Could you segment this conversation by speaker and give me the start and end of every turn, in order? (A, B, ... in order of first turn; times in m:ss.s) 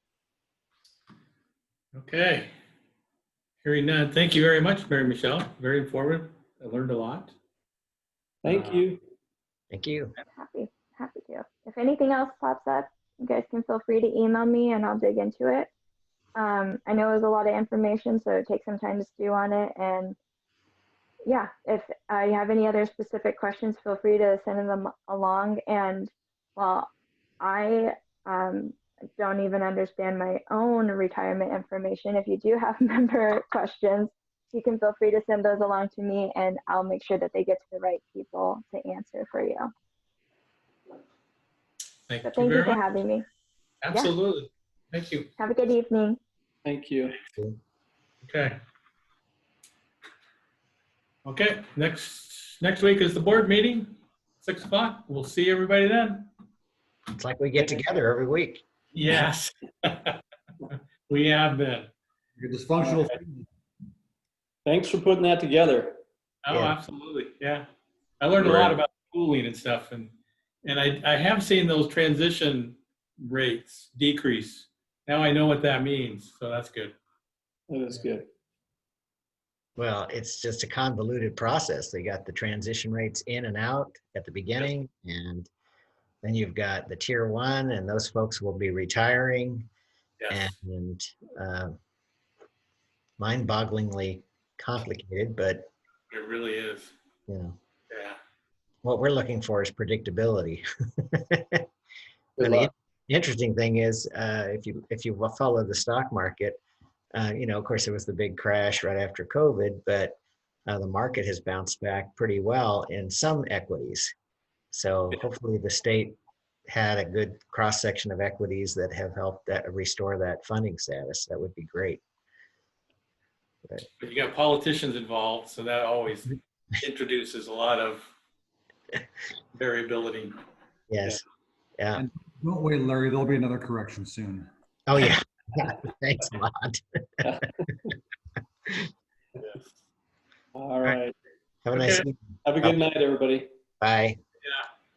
0:01.9-0:02.5 A
0:03.6-0:07.3 A
0:08.4-0:09.0 B
0:08.4-0:08.9 A
0:09.7-0:10.1 C
0:10.4-0:15.7 D
0:16.4-0:20.2 D
0:21.2-0:26.9 D
0:27.4-0:39.7 D
0:42.1-0:42.8 A
0:42.2-0:43.2 D
0:43.8-0:45.3 A
0:45.4-0:46.2 D
0:46.6-0:47.2 B
0:48.2-0:48.6 A
0:51.2-0:56.3 A
0:57.1-0:58.6 C
0:58.9-1:00.2 A
1:00.7-1:01.9 A
1:02.4-1:03.5 E
1:02.8-1:03.1 B
1:04.6-1:06.0 B
1:06.4-1:07.7 A
1:06.5-1:06.8 C
1:08.2-1:17.0 A
1:08.4-1:08.7 C
1:17.7-1:18.3 B
1:19.8-1:25.5 C
1:26.2-1:29.7 C
1:30.2-1:30.5 A
1:30.3-1:31.8 C
1:33.2-1:35.7 C
1:36.1-1:36.9 A
1:37.3-1:37.6 C
1:37.9-1:38.2 A
1:38.8-1:41.6 C
1:42.4-1:46.6 C
1:42.4-1:42.7 B
1:47.1-1:54.1 C
1:54.7-2:02.0 C
2:04.0-2:08.1 A
2:09.5-2:10.4 A
2:10.9-2:11.2 C
2:11.8-2:12.0 C
2:11.9-2:14.5 E
2:14.9-2:17.0 C
2:17.2-2:17.8 B
2:19.4-2:19.7 A
2:20.5-2:21.1 B
2:21.6-2:22.8 C
2:21.7-2:22.0 A
2:22.4-2:23.5 B
2:23.8-2:24.2 C